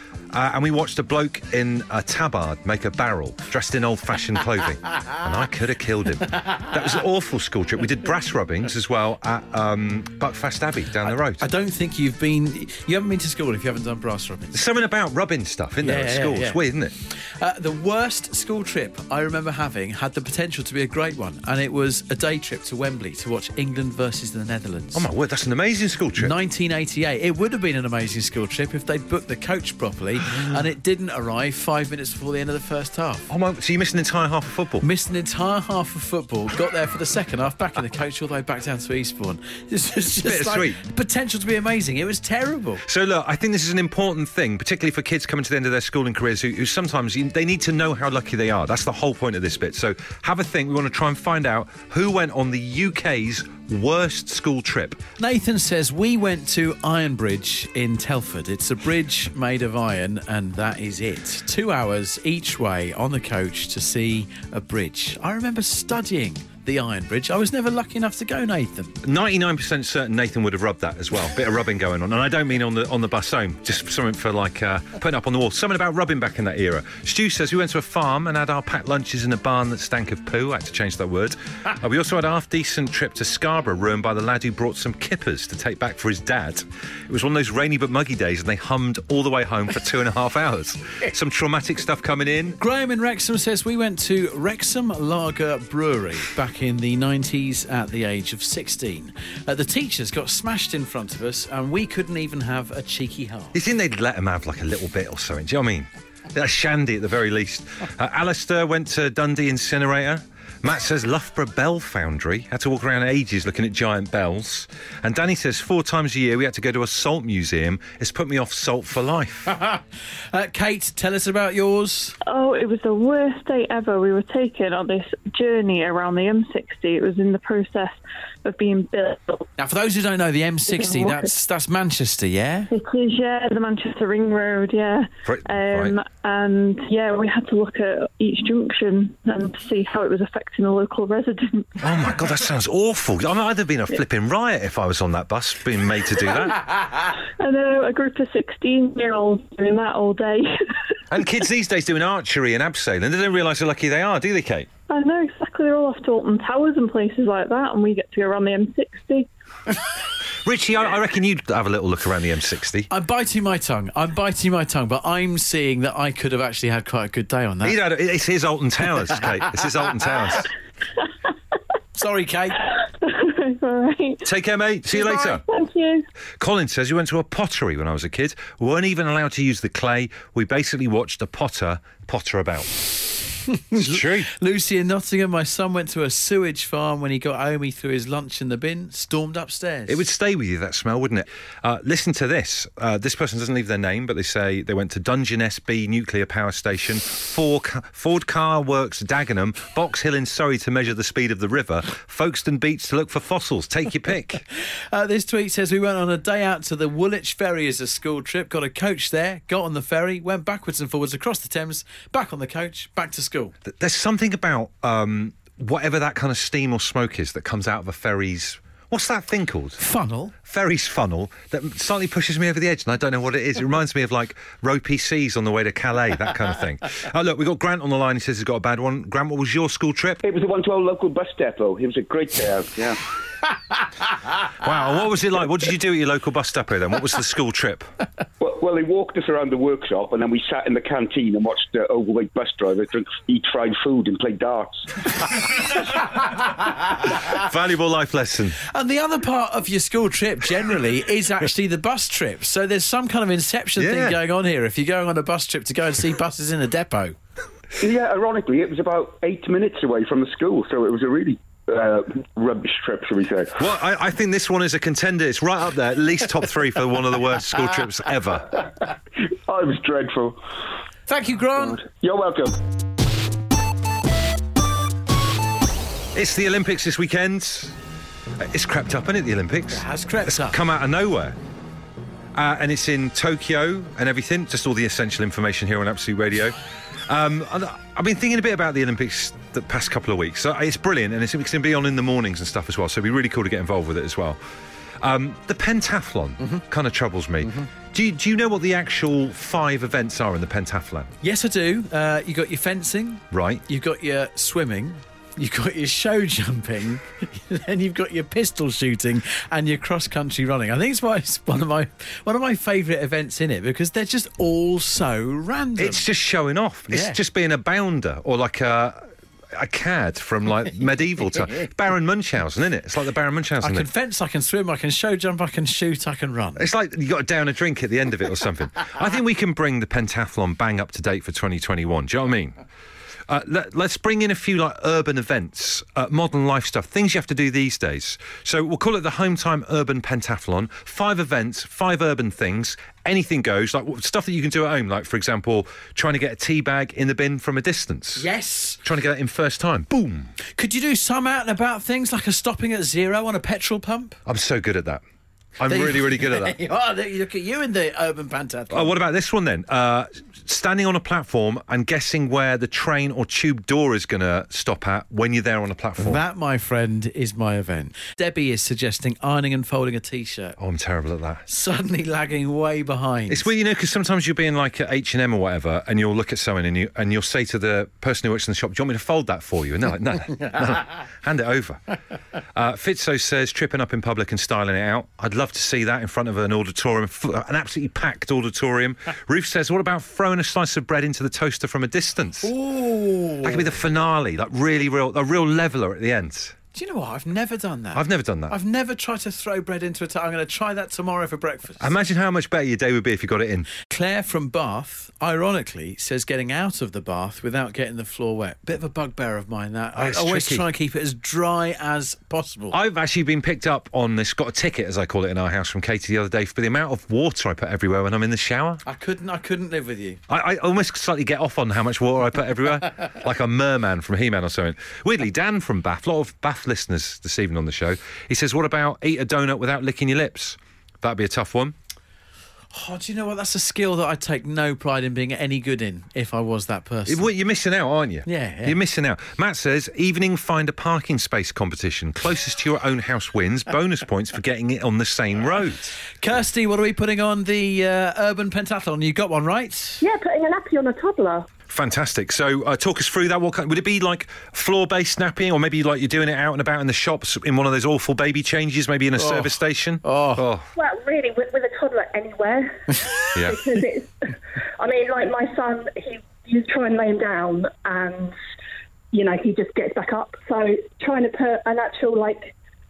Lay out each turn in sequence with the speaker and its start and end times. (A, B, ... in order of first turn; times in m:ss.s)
0:00.3-0:11.5 A
0:11.0-0:14.6 B
0:14.5-0:17.0 A
0:15.8-0:16.6 B
0:17.3-0:25.0 B
0:24.9-0:26.4 A
0:26.2-0:33.3 B
0:33.3-0:34.9 A
0:34.8-0:42.9 B
0:40.2-0:40.8 A
0:42.9-0:55.0 A
0:55.2-1:08.9 B
1:09.0-1:32.6 A
1:32.6-1:43.6 B
1:43.5-1:59.5 A
2:00.3-2:02.1 B
2:02.3-2:09.5 C
2:09.6-2:12.7 B
2:10.7-2:11.4 C
2:12.7-2:21.7 C
2:15.2-2:16.0 A
2:21.8-2:26.7 A
2:27.4-2:30.5 C
2:31.1-2:34.7 A
2:34.9-2:39.3 C
2:40.4-2:42.9 A
2:42.9-2:47.8 B
2:47.6-2:50.5 A
2:51.9-2:52.6 B
2:53.0-2:54.2 C
2:54.2-2:55.4 A
2:54.9-2:56.0 C
2:56.4-3:02.7 A
3:03.5-3:10.0 B
3:03.8-3:04.3 A
3:09.9-3:24.4 A
3:24.9-3:33.5 B
3:33.6-3:39.8 A
3:39.8-3:40.4 B
3:40.4-3:50.2 A
3:50.2-3:53.0 D
3:54.6-3:57.9 A
3:58.4-4:05.4 D
4:07.2-4:08.6 A
4:08.6-4:17.2 B
4:13.8-4:14.2 A
4:17.8-4:23.6 D
4:23.6-4:28.6 A
4:29.5-4:30.4 D
4:31.1-4:31.8 B
4:31.8-4:32.6 D
4:36.2-4:37.8 A
4:38.5-4:41.4 A
4:39.7-4:40.6 B
4:42.4-4:46.6 A
4:47.1-4:54.4 A
4:55.0-5:01.1 A
5:01.2-5:16.1 B
5:03.3-5:03.6 A
5:15.8-5:19.0 A
5:16.9-5:17.2 B
5:19.6-5:23.9 A
5:23.6-5:26.7 B
5:26.6-5:32.6 A
5:33.3-5:48.3 A
5:48.2-5:48.9 B
5:48.8-5:50.3 A
5:50.5-5:54.2 B
5:54.3-5:55.0 A
5:55.6-5:56.6 A
5:55.6-5:59.0 B
5:58.7-6:06.2 A
6:06.0-6:10.6 B
6:10.6-6:11.4 A
6:11.4-6:13.5 B
6:13.3-6:21.8 A
6:22.6-6:32.5 A
6:32.4-6:33.6 B
6:33.4-6:36.6 A
6:36.7-6:42.0 B
6:38.0-6:38.6 A
6:41.8-6:43.7 A
6:43.8-6:52.8 B
6:50.0-6:50.7 A
6:52.7-6:58.8 A
6:58.8-7:00.2 B
7:00.3-7:11.8 A
7:12.7-7:17.3 B
7:17.1-7:25.9 A
7:18.2-7:18.8 B
7:26.2-7:30.0 B
7:30.0-7:31.5 E
7:31.7-7:40.7 A
7:39.2-7:40.4 B
7:40.8-7:48.4 E
7:43.4-7:43.6 A
7:49.1-7:52.6 E